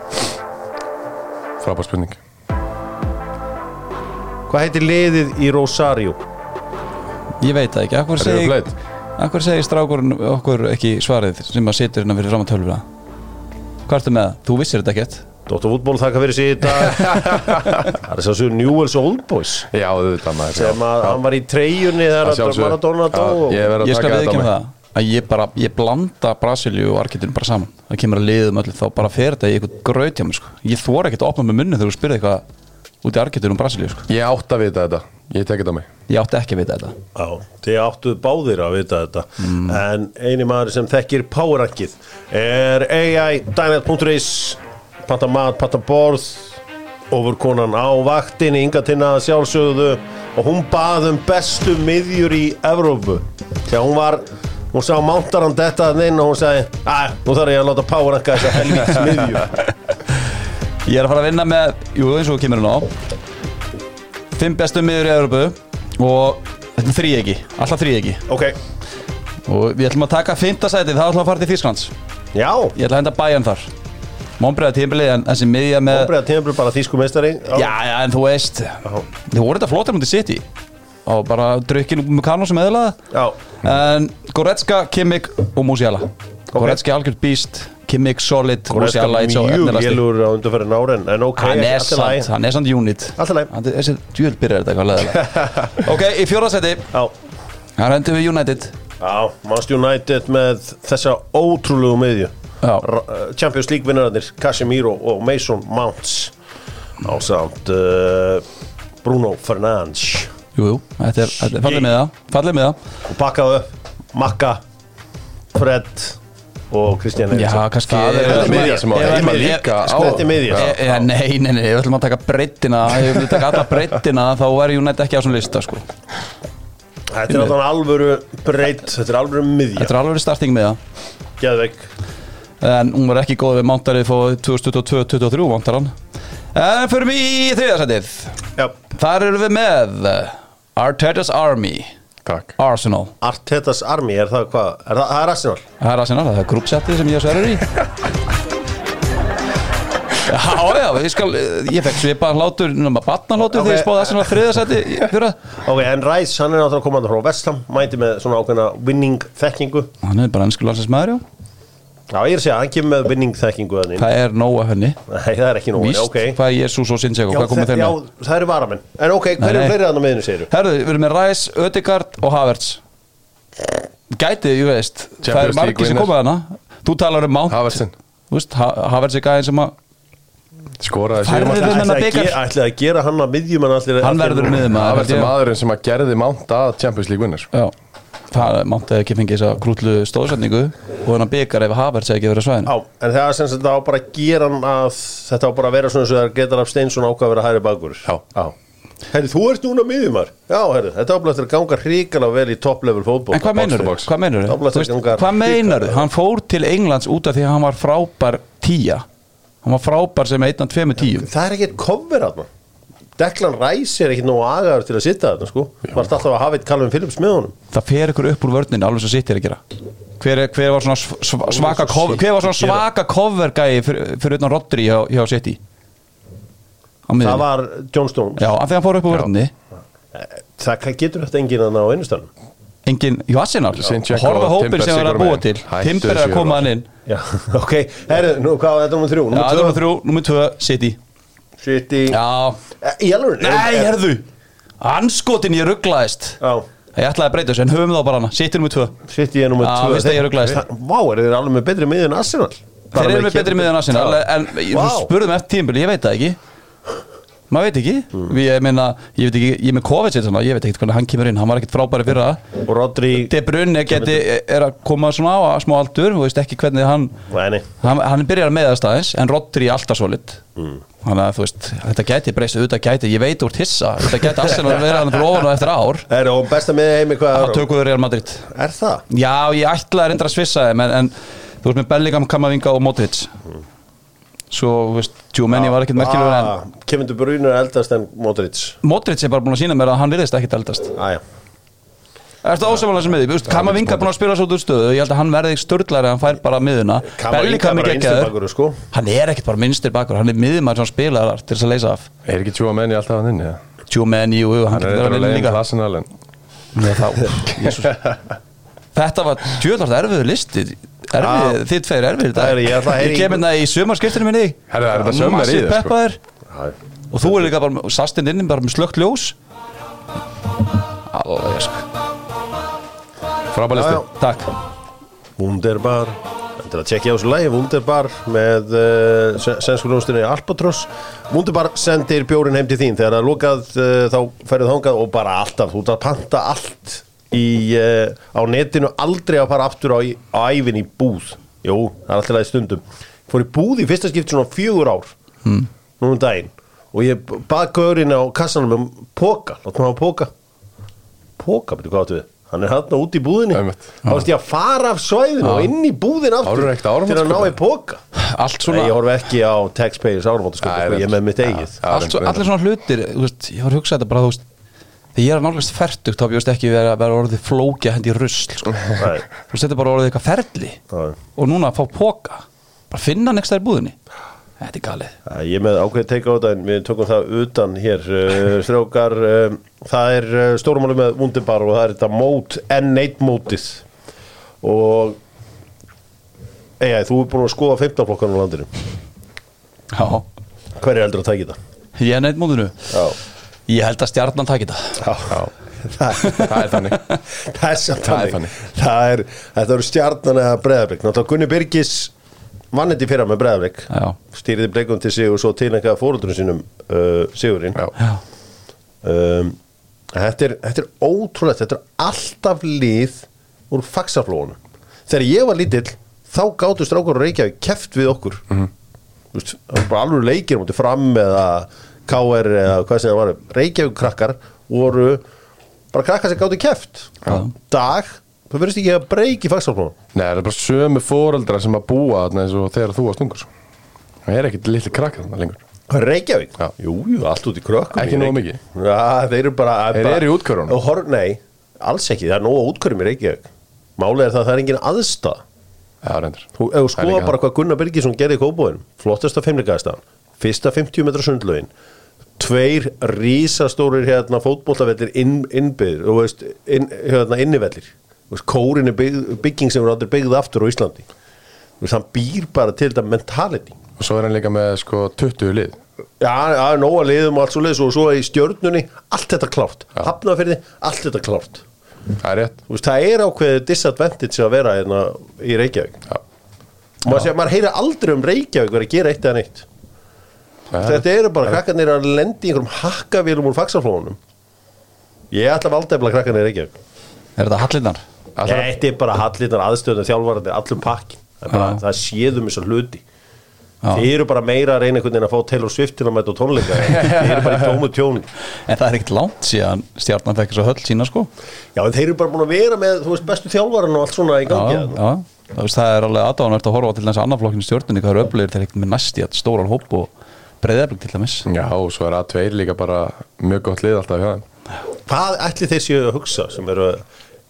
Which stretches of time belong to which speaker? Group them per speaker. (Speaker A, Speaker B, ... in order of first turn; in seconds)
Speaker A: 1.6-2.2, 8.2-8.7, 16.9-17.9, 19.7-21.2, 22.2-24.5, 34.1-35.9, 117.9-120.8, 142.2-142.6, 175.2-176.1, 177.5-177.9, 180.8-181.8, 184.7-187.5, 203.7-204.1, 233.8-236.6, 293.5-294.1, 302.2-303.6, 304.7-306.1, 307.6-308.2, 314.7-315.9, 323.5-324.0, 353.5-353.9, 356.4-357.6, 360.6-362.5, 396.3-397.0, 398.0-398.5, 430.1-433.5, 434.2-435.6, 437.9-438.6, 439.9-440.8, 446.0-447.3, 464.0-465.8, 472.2-472.6, 480.7-481.0, 488.4-488.7, 496.8-497.8, 511.4-514.4
Speaker B: 4.5-6.2, 15.5-19.7, 20.5-23.6, 37.1-46.6, 47.1-59.5, 68.3-68.6, 72.3-72.7, 75.9-77.7, 83.1-83.4, 86.5-86.8, 88.7-92.3, 93.2-93.5, 95.1-95.8, 99.0-106.3, 107.0-108.5, 109.0-110.3, 111.4-112.0, 113.0-114.6, 115.5-116.2, 116.7-121.0, 127.1-129.9, 131.4-131.9, 143.2-145.6, 153.4-154.4, 155.5-159.9, 162.1-164.1, 165.1-166.4, 167.3-170.5, 181.5-184.7, 192.6-198.5, 199.1-206.0, 211.0-212.5, 213.2-217.5, 221.4-222.8, 227.2-228.5, 230.1-232.3, 237.1-239.8, 241.6-242.2, 242.8-243.9, 246.4-246.7, 249.1-255.1, 262.6-263.3, 263.9-264.2, 267.3-267.6, 270.6-270.8, 276.1-277.7, 278.5-279.0, 285.5-288.8, 290.9-291.2, 297.0-298.8, 311.2-311.6, 312.3-313.4, 316.5-317.5, 323.7-324.1, 325.4-345.1, 346.0-350.3, 351.4-358.0, 358.6-361.8, 369.0-369.2, 370.9-371.2, 375.2-383.8, 384.6-385.2, 386.8-388.7, 390.8-391.6, 392.9-393.2, 395.0-402.1, 402.7-407.8, 409.0-409.6, 410.1-418.4, 419.3-425.2, 425.9-429.9, 435.9-445.4, 446.6-451.7, 452.4-461.1, 461.8-463.8, 466.2-471.6, 472.7-476.0, 477.0-479.7, 480.8-484.2, 485.3-486.7, 488.4-493.0, 493.9-498.3, 501.8-505.0, 515.1-517.0
Speaker C: 7.4-12.8, 13.9-15.2, 23.8-32.4, 33.0-34.0, 36.1-37.0, 39.4-39.8, 60.8-62.9, 64.3-68.2, 69.5-71.9, 72.8-73.7, 74.4-76.1, 77.5-80.4, 81.0-83.0, 83.6-90.0, 91.4-96.9, 97.8-98.7, 110.5-112.8, 117.3-125.9, 127.3-127.5, 129.8-130.8, 132.6-135.9, 136.5-141.9, 142.6-143.1, 145.8-147.7, 150.2-155.4, 160.0-161.2, 164.0-165.0, 165.8-167.9, 169.4-169.8, 170.5-172.8, 174.1-179.7, 181.2-182.4, 184.0-185.3, 188.3-192.7, 203.3-209.0, 209.6-211.3, 217.7-219.6, 220.2-225.6, 227.1-227.4, 228.4-229.5, 232.8-236.9, 239.3-241.0, 242.1-242.6, 243.4-244.2, 244.8-246.4, 246.9-249.0, 249.6-250.6, 252.9-256.4, 257.5-262.4, 263.2-267.1, 267.8-270.4, 271.0-276.1, 277.3-278.5, 279.1-283.3, 284.5-286.5, 288.8-290.9, 292.4-298.3, 298.9-302.1, 303.9-305.6, 306.7-308.1, 308.9-316.2, 317.1-319.4, 321.1-321.9, 324.2-324.5, 355.4-355.7, 358.1-358.9, 361.8-364.4, 365.1-370.8, 371.3-374.0, 374.6-375.1, 389.9-390.2, 392.0-393.1, 393.7-395.0, 403.9-404.1, 487.4-488.0, 491.5-491.8, 498.6-501.3, 504.5-510.1, 510.6-511.4